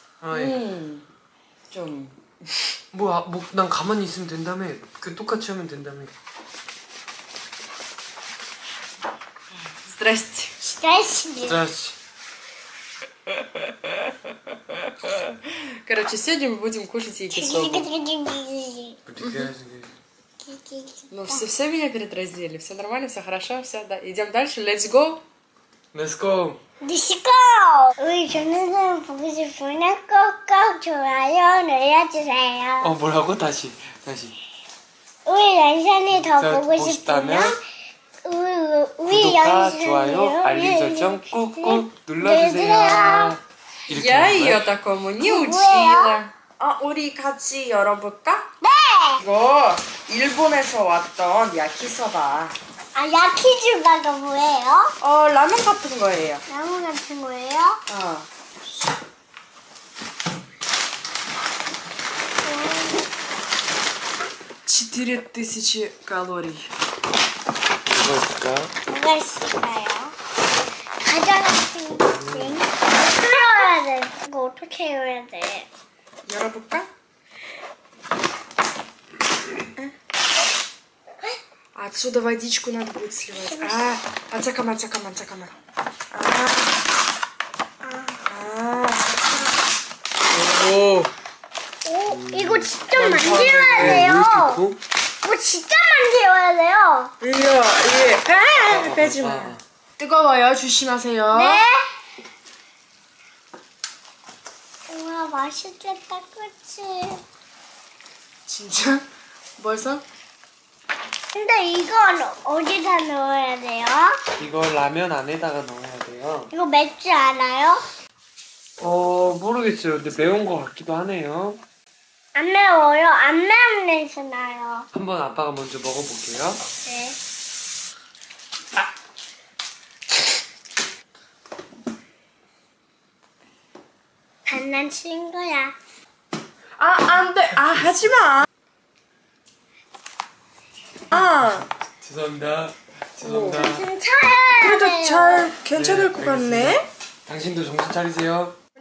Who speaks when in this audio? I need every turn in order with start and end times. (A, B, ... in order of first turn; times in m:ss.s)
0:00.2-0:00.6 A
0:00.3-0:01.0 B
0:01.7-0:02.3 B
0:02.9-0:06.1 A
0:09.7-0:10.5 B
0:10.6-0:11.6 C
0:11.4-0:12.0 A
0:13.3-0:17.9 B
0:17.3-0:19.0 C
0:19.1-0:19.9 A
0:20.4-0:21.4 C
0:21.1-0:25.2 B
0:25.9-0:26.6 A
0:26.8-0:33.0 C
0:32.8-0:34.4 A
0:35.2-0:37.6 C
0:36.2-0:37.6 A
0:38.2-0:43.4 C
0:39.1-0:44.7 A
0:43.9-0:48.5 B
0:45.2-0:46.2 C
0:48.6-0:49.2 C
0:49.2-0:52.6 B
0:53.0-0:54.9 C
0:55.0-0:56.4 B
0:56.5-0:57.8 C
0:57.9-0:58.3 B
1:02.4-1:03.0 C
1:04.7-1:06.7 B
1:07.9-1:08.7 A
1:08.9-1:10.2 C
1:11.0-1:15.7 C
1:12.0-1:12.6 A
1:16.3-1:16.9 B
1:21.8-1:25.5 B
1:23.5-1:23.8 C
1:26.1-1:26.7 B
1:27.8-1:28.2 C
1:28.3-1:29.1 B
1:30.3-1:31.1 B
1:31.8-1:34.6 C
1:32.1-1:34.8 A
1:32.9-1:34.1 B
1:35.2-1:37.1 C
1:37.2-1:41.6 B
1:38.6-1:39.6 A
1:41.3-1:42.0 C
1:44.9-1:47.2 C
1:48.5-1:49.0 B
1:49.6-1:50.0 B
1:51.3-1:54.2 C
1:54.4-1:56.5 A
1:56.5-1:57.8 C
1:58.8-2:01.6 A
2:02.4-2:04.9 C
2:04.9-2:06.6 A
2:06.8-2:07.2 C
2:14.4-2:15.7 C
2:16.8-2:18.5 B
2:21.1-2:21.7 B
2:21.4-2:23.9 A
2:23.2-2:23.7 B
2:23.5-2:25.5 C
2:24.6-2:26.9 B
2:25.7-2:28.6 A